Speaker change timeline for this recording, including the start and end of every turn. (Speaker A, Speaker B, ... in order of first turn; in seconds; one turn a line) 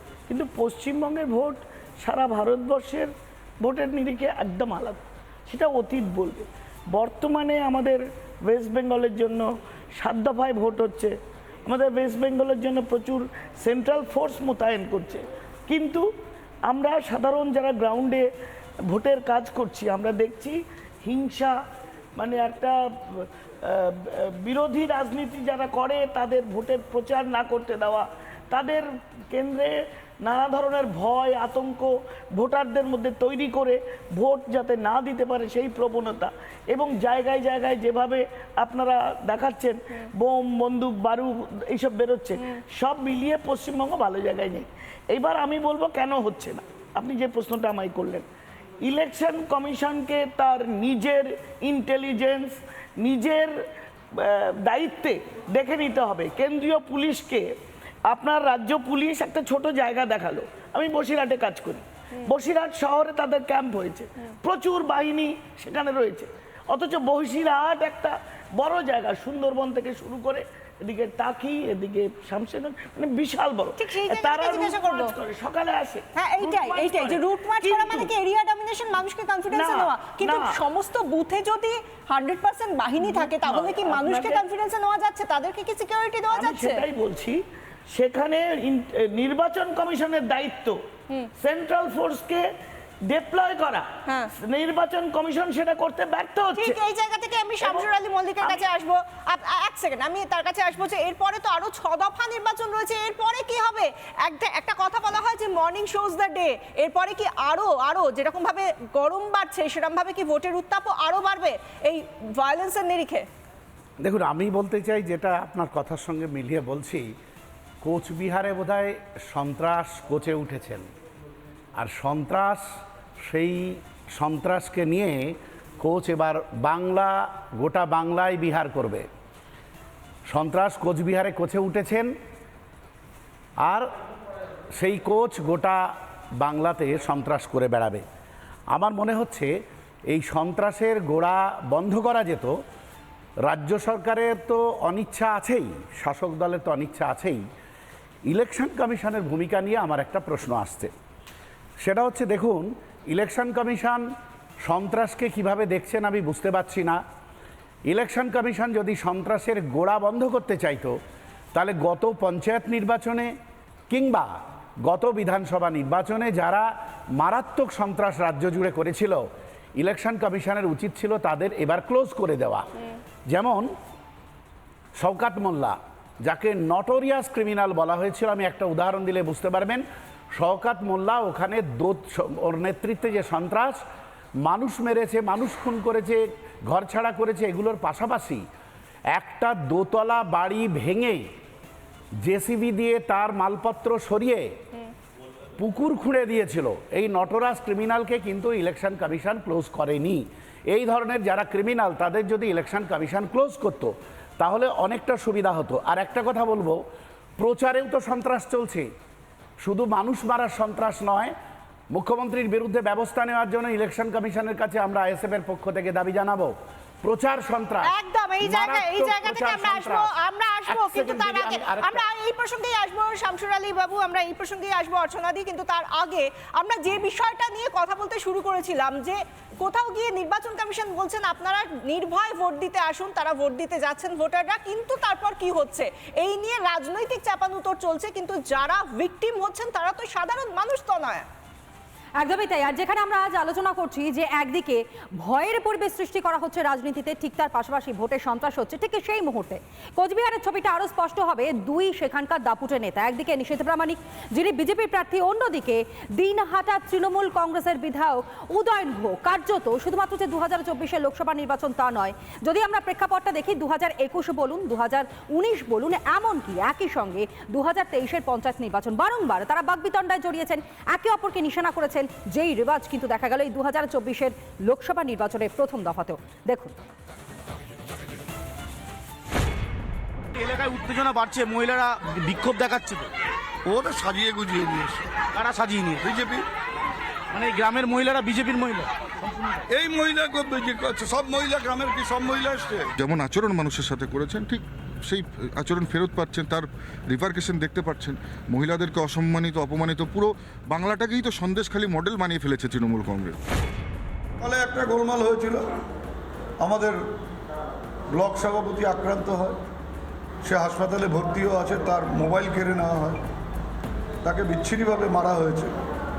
Speaker A: 0.3-16.1
Speaker A: 16.6-18.3
Speaker A: 18.9-21.6
Speaker A: 22.1-48.3
Speaker A: 48.8-53.6
Speaker A: 54.1-57.5
Speaker A: 58.0-78.1
Speaker B: 73.8-75.2
Speaker B: 76.1-86.9
Speaker A: 79.5-80.5
Speaker A: 83.1-84.4
Speaker A: 86.3-90.8
Speaker A: 91.4-92.5
Speaker A: 93.0-96.8
Speaker B: 94.1-94.3
Speaker B: 96.5-113.3
Speaker C: 114.0-117.1
Speaker C: 117.8-120.8
Speaker C: 121.8-122.6
Speaker C: 123.2-129.1
Speaker C: 130.3-132.1
Speaker C: 134.7-138.0
Speaker C: 138.7-139.5
Speaker C: 140.1-142.6
Speaker C: 143.4-147.4
Speaker C: 148.3-150.9
Speaker C: 151.8-154.0
Speaker C: 154.6-157.0
Speaker C: 157.9-160.9
Speaker C: 161.5-163.3
Speaker C: 163.9-164.3
Speaker C: 164.8-169.2
Speaker C: 169.8-172.7
Speaker C: 173.3-173.7
Speaker C: 174.9-179.8
Speaker C: 180.3-183.8
Speaker C: 184.4-188.4
Speaker C: 189.1-191.2
Speaker C: 192.2-194.4
Speaker C: 195.6-206.8
Speaker C: 207.4-208.9
Speaker C: 209.6-211.3
Speaker C: 211.9-217.9
Speaker B: 217.8-241.2
Speaker C: 218.4-220.1
Speaker C: 220.7-222.0
Speaker D: 242.2-276.7
Speaker E: 280.4-283.1
Speaker F: 283.6-285.1
Speaker E: 285.4-286.1
Speaker F: 286.0-286.4
Speaker E: 287.3-289.6
Speaker F: 289.7-292.9
Speaker G: 293.0-303.4
Speaker F: 304.4-305.6
Speaker F: 306.6-307.0
Speaker F: 308.1-309.6
Speaker F: 310.4-313.2
Speaker F: 314.2-315.7